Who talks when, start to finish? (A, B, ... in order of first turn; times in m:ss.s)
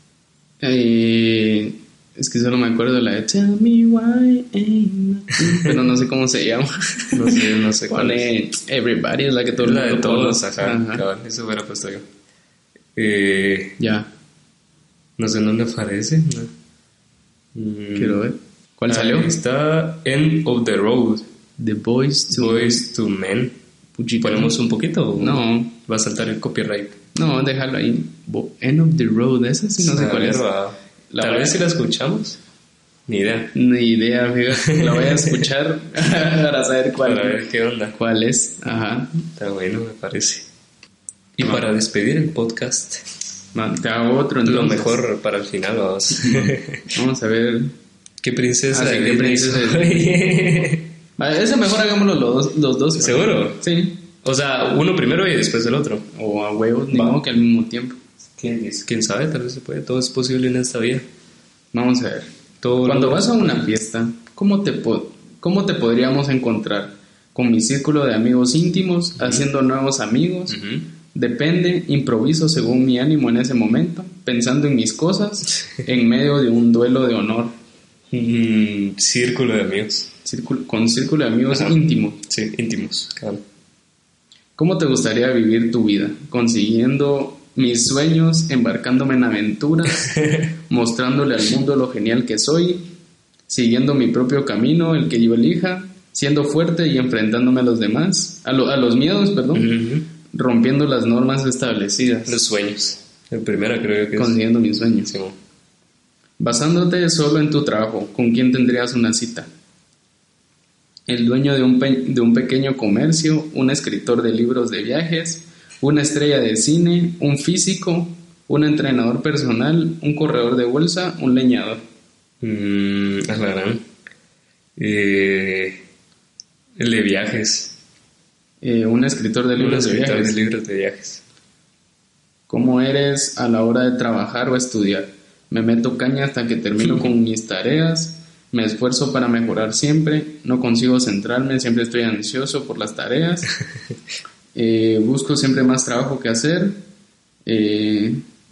0:00.6-0:11.0 A
0:05.4-0:05.7 B
0:07.1-0:08.3 B
0:09.6-0:12.1 B
0:13.0-0:13.8 B
0:13.8-0:14.1 A
0:15.2-0:16.5 B
0:17.5-0:18.2 B
0:18.0-0:19.4 A
0:18.9-0:21.3 B
0:21.6-0:22.8 A
0:22.3-0:23.6 B
0:24.0-0:24.5 A
0:24.2-0:27.0 B
0:25.2-0:25.7 A
0:27.1-0:30.4 A
0:29.8-0:32.4 B
0:31.1-0:31.6 A
0:33.1-0:33.5 B
0:33.5-0:37.4 A
0:34.5-0:35.5 B
0:37.0-0:38.0 B
0:38.0-0:39.3 A
0:39.4-0:40.5 B
0:41.4-0:43.1 B
0:43.5-0:45.0 A
0:44.4-0:46.9 B
0:46.2-0:47.7 A
0:48.2-0:50.9 B
0:48.7-0:50.1 A
0:51.2-0:54.0 A
0:52.9-0:53.6 B
0:54.2-0:56.0 B
0:56.1-0:58.0 A
0:56.9-0:57.2 B
0:58.4-1:01.0 B
1:01.7-1:02.3 A
1:02.6-1:03.7 B
1:02.8-1:10.6 A
1:09.2-1:09.4 B
1:10.5-1:10.9 B
1:11.1-1:17.5 A
1:18.1-1:20.1 B
1:20.2-1:22.2 A
1:22.3-1:23.4 B
1:24.6-1:32.9 A
1:30.0-1:30.5 B
1:33.5-1:42.4 A
1:39.5-1:40.1 B
1:42.2-1:44.4 B
1:44.2-1:45.1 A
1:45.0-1:45.4 B
1:46.4-1:49.5 A
1:51.1-2:01.8 A
2:02.4-2:03.8 B
2:04.8-2:05.8 B
2:06.8-2:07.8 B
2:08.6-2:10.4 A
2:09.6-2:11.2 B
2:12.5-2:23.5 A
2:16.8-2:17.1 B
2:24.5-2:26.8 A
2:27.4-2:28.2 A